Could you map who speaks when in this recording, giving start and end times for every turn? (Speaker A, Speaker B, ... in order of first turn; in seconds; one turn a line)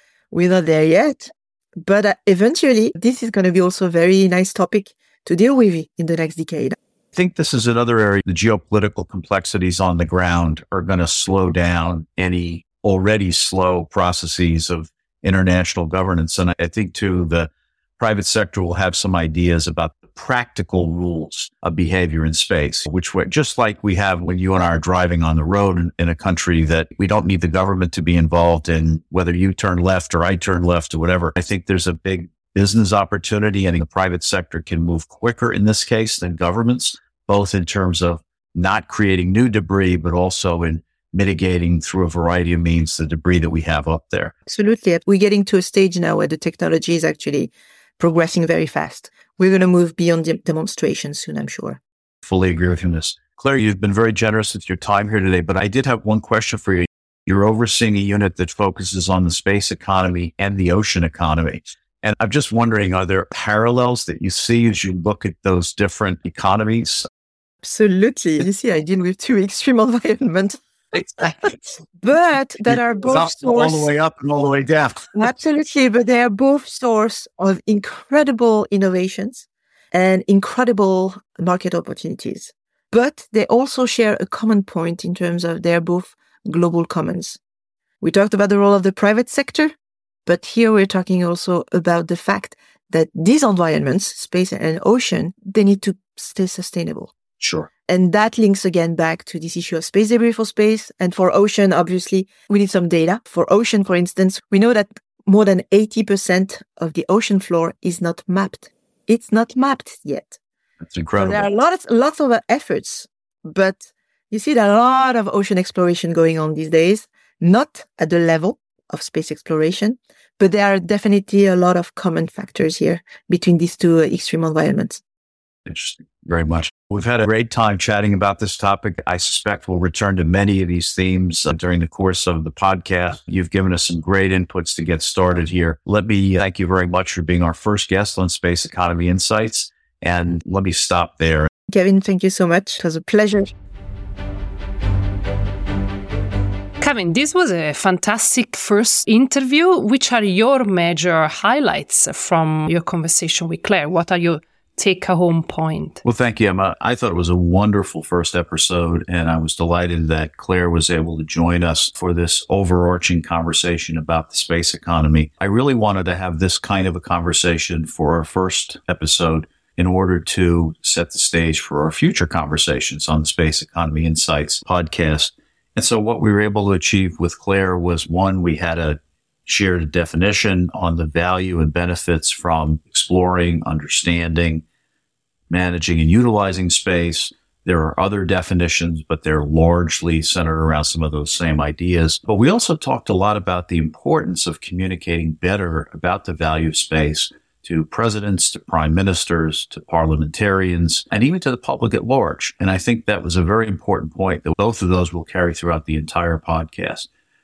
Speaker A: 0.3-6.8
Speaker B: 7.1-44.3
Speaker A: 44.5-51.8
Speaker B: 52.2-67.1
Speaker A: 67.6-70.6
Speaker B: 70.9-71.7
Speaker A: 71.4-73.9
Speaker B: 72.7-75.2
Speaker A: 75.1-87.4
Speaker A: 88.0-89.7
Speaker A: 90.2-97.1
Speaker B: 97.4-97.7
Speaker A: 97.9-110.4
Speaker B: 110.8-111.5
Speaker A: 111.2-125.0
Speaker B: 125.6-141.5
Speaker A: 141.7-143.5
Speaker C: 146.8-156.0
Speaker B: 156.0-184.6
Speaker B: 185.5-207.1